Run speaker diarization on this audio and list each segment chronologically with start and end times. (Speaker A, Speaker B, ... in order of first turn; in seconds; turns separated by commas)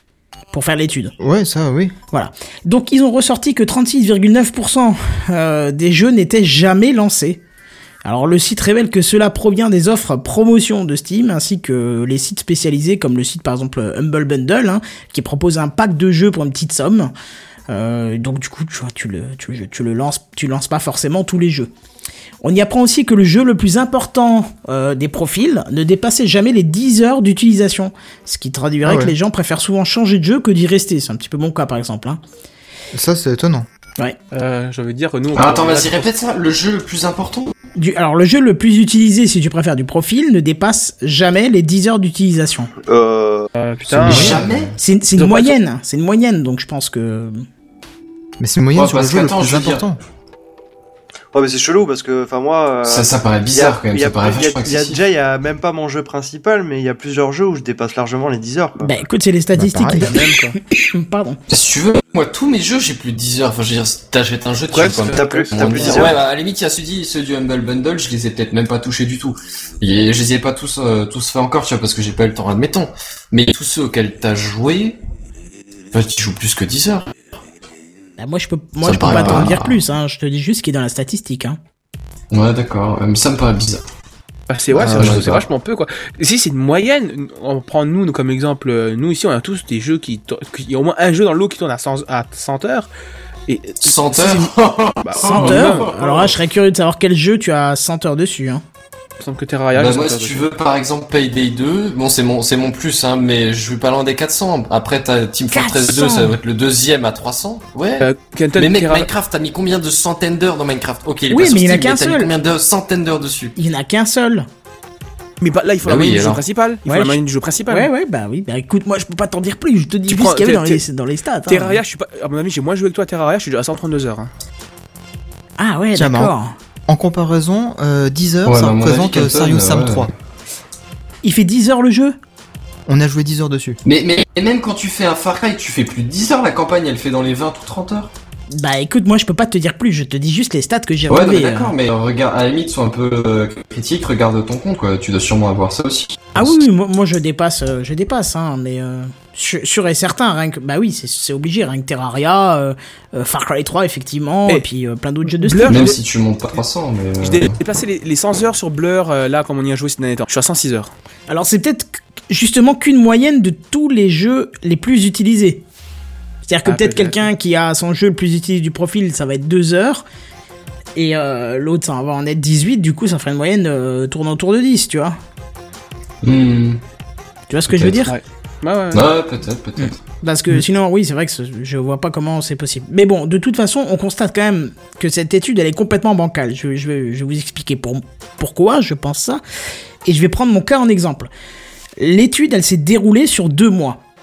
Speaker A: 0.5-1.1, Speaker B: 1.2-1.9, Speaker A: 2.1-7.4, Speaker A: 8.1-17.1, Speaker A: 17.7-21.7, Speaker A: 22.4-32.2, Speaker B: 28.8-29.1, Speaker B: 32.9-33.7, Speaker C: 34.3-36.1, Speaker D: 35.3-37.5, Speaker A: 37.8-42.7, Speaker E: 42.9-43.5, Speaker C: 43.5-44.4, Speaker B: 43.9-44.7, Speaker D: 44.0-44.8, Speaker A: 44.8-47.4, Speaker C: 45.2-45.5, Speaker B: 48.4-50.0, Speaker D: 48.7-49.8, Speaker E: 51.3-58.9, Speaker D: 52.9-55.0, Speaker A: 58.8-61.4, Speaker B: 59.5-60.1, Speaker C: 60.0-60.6, Speaker D: 61.5-75.0, Speaker C: 64.7-66.1, Speaker E: 65.0-66.2, Speaker D: 75.9-77.1, Speaker A: 78.2-81.6, Speaker D: 78.8-79.8, Speaker B: 79.0-79.5, Speaker D: 82.3-83.8, Speaker C: 84.5-92.9, Speaker B: 84.7-85.2, Speaker D: 84.9-85.5, Speaker C: 93.5-94.5, Speaker D: 93.8-95.9, Speaker C: 95.0-96.3, Speaker A: 95.2-98.6, Speaker C: 99.2-100.5, Speaker D: 99.7-113.5, Speaker A: 105.5-106.4, Speaker C: 108.0-109.1, Speaker A: 111.3-112.3, Speaker A: 113.6-114.5, Speaker C: 115.4-117.9, Speaker D: 115.8-116.5, Speaker A: 116.9-121.8, Speaker C: 120.1-120.8, Speaker C: 121.5-124.3, Speaker A: 125.6-126.5, Speaker B: 125.9-126.3, Speaker B: 126.9-130.1, Speaker D: 128.4-130.1, Speaker A: 131.2-132.2, Speaker B: 132.9-133.8, Speaker D: 133.8-138.1, Speaker A: 138.5-141.7, Speaker D: 141.1-146.6, Speaker A: 146.3-155.9, Speaker C: 155.4-156.0, Speaker D: 155.6-157.6, Speaker C: 157.2-160.9, Speaker A: 161.3-165.6, Speaker A: 166.5-170.0, Speaker C: 166.7-167.2, Speaker A: 171.0-175.2, Speaker D: 176.2-176.8, Speaker A: 177.5-178.2, Speaker D: 177.7-178.1, Speaker C: 178.1-179.1, Speaker D: 178.9-180.0, Speaker A: 179.8-189.4, Speaker A: 190.1-191.3, Speaker A: 192.0-194.0